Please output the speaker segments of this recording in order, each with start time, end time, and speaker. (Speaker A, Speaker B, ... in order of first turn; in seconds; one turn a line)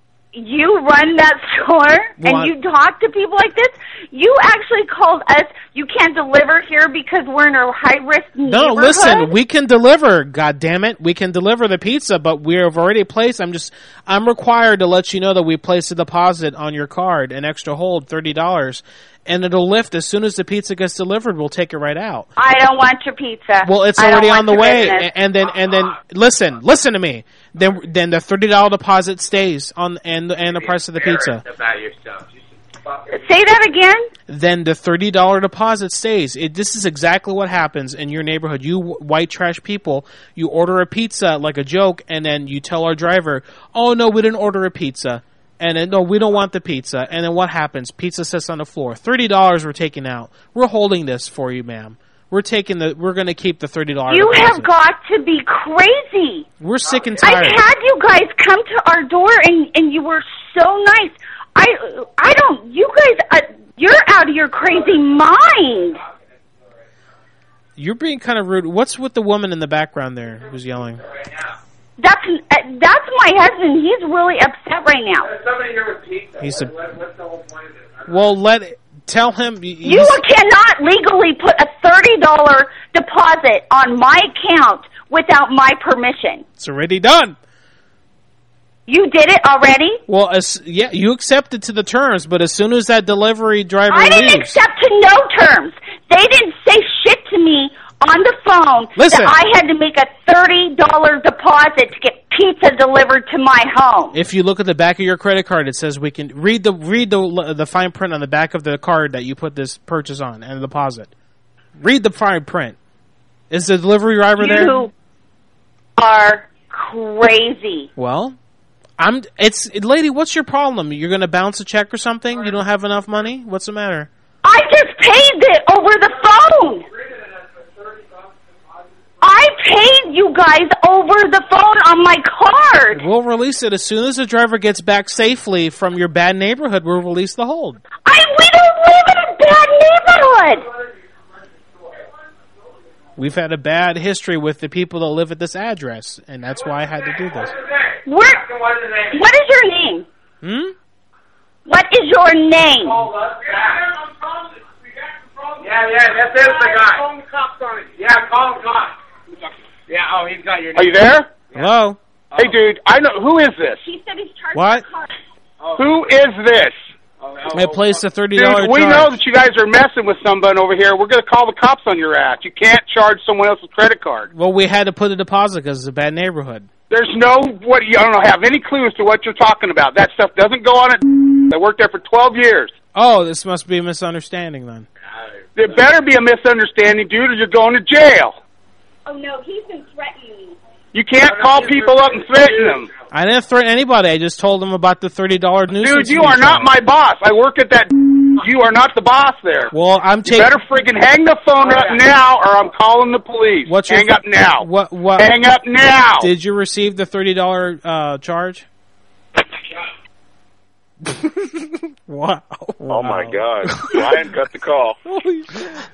Speaker A: 0.3-9.3
Speaker B: 2.2-2.5
Speaker B: 8.4-22.3
Speaker A: 22.4-25.1
Speaker B: 23.6-31.4
Speaker C: 30.5-33.2
Speaker A: 33.1-34.1
Speaker B: 34.3-54.7
Speaker A: 54.1-56.5
Speaker B: 56.6-57.6
Speaker A: 57.2-66.0
Speaker B: 67.8-71.0
Speaker A: 72.0-75.3
Speaker C: 75.3-78.1
Speaker B: 76.4-76.7
Speaker B: 78.1-80.2
Speaker A: 79.8-86.4
Speaker B: 86.6-87.3
Speaker A: 88.9-90.0
Speaker B: 90.1-94.6
Speaker A: 93.9-104.2
Speaker B: 98.9-99.3
Speaker B: 104.1-111.1
Speaker B: 111.8-112.8
Speaker B: 113.5-114.8
Speaker A: 114.4-114.9
Speaker A: 116.0-117.9
Speaker B: 118.0-118.3
Speaker B: 119.0-124.1
Speaker A: 124.4-126.8
Speaker C: 127.1-128.8
Speaker A: 129.2-133.0
Speaker B: 132.9-137.8
Speaker A: 138.0-140.7
Speaker B: 143.2-147.5
Speaker A: 148.1-148.4
Speaker C: 148.4-149.2
Speaker A: 149.1-150.1
Speaker B: 150.4-150.7
Speaker A: 151.7-153.0
Speaker C: 152.9-153.8
Speaker C: 155.6-157.1
Speaker D: 156.4-157.7
Speaker C: 157.9-158.9
Speaker C: 159.9-160.9
Speaker D: 160.7-161.3
Speaker B: 161.5-162.0
Speaker D: 162.3-163.8
Speaker A: 163.8-165.1
Speaker B: 164.5-164.8
Speaker D: 165.8-166.7
Speaker C: 167.2-167.9
Speaker B: 167.5-169.2
Speaker D: 168.3-174.3
Speaker B: 174.3-176.7
Speaker D: 176.9-182.7
Speaker B: 182.9-184.9
Speaker D: 185.6-188.3
Speaker A: 189.1-190.6
Speaker D: 190.9-192.9
Speaker C: 191.4-192.4
Speaker B: 193.1-196.7
Speaker D: 195.8-199.7
Speaker B: 199.7-200.5
Speaker D: 200.2-204.7
Speaker B: 203.7-205.3
Speaker D: 205.2-206.3
Speaker B: 206.2-208.7
Speaker B: 211.0-214.2
Speaker E: 212.9-215.0
Speaker B: 215.1-215.8